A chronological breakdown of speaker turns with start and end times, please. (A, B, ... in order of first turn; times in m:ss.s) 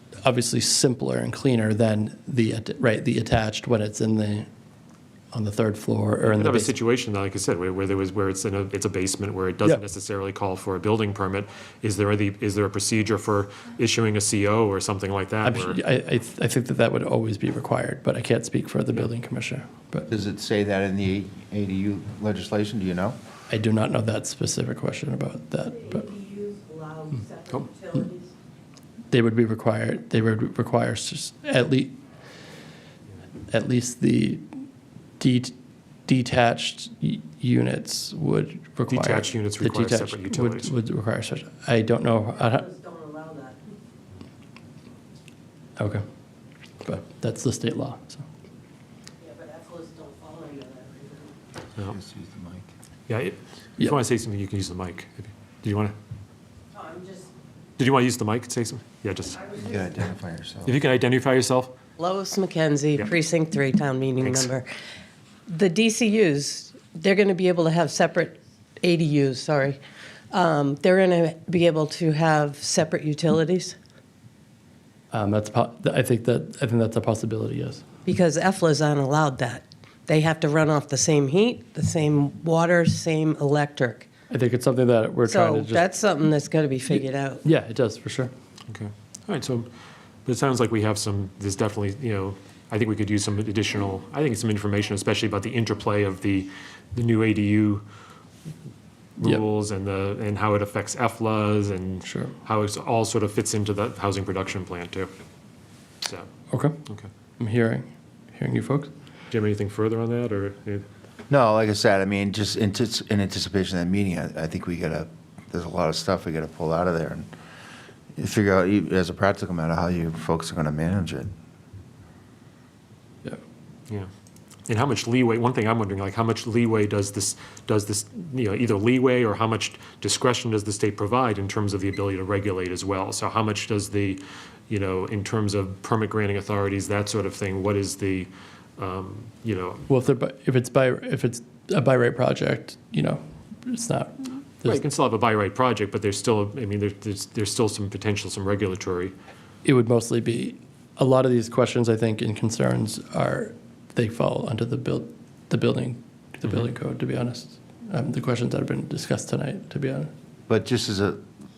0:00.2-0:04.5 A
0:05.3-0:06.8 A
0:06.2-0:15.8 B
0:15.4-0:20.1 A
0:20.1-0:23.2 C
0:23.5-0:26.1 A
0:25.9-0:28.3 D
0:29.1-0:32.0 A
0:33.5-0:34.4 A
0:35.2-0:35.5 A
0:36.1-0:42.7 A
0:38.9-0:40.7 B
0:42.5-0:43.6 D
0:45.8-0:46.0 A
0:46.8-0:48.2 A
0:49.2-0:51.4 D
0:51.8-0:52.7 C
0:53.1-0:56.0 B
0:56.7-0:57.3 D
0:57.8-0:59.5 B
0:59.5-1:00.8 C
1:00.7-1:01.7 B
1:02.0-1:04.7 D
1:04.2-1:04.5 B
1:05.5-1:09.8 D
1:10.3-1:13.8 D
1:15.1-1:17.8 A
1:18.1-1:24.1 D
1:24.3-1:25.9 A
1:25.3-1:27.4 D
1:26.9-1:28.3 A
1:28.7-1:29.7 B
1:30.2-1:37.8 B
1:39.2-1:45.1 B
1:42.0-1:42.3 A
1:46.0-1:46.3 B
1:46.5-1:46.8 A
1:47.4-1:48.9 A
1:49.3-1:50.9 B
1:51.3-1:57.3 C
1:58.2-2:01.3 C
2:04.7-2:19.9 B
2:19.9-2:24.8 A
2:24.6-2:29.1 B
2:29.6-2:40.1 A
2:40.5-2:41.2 C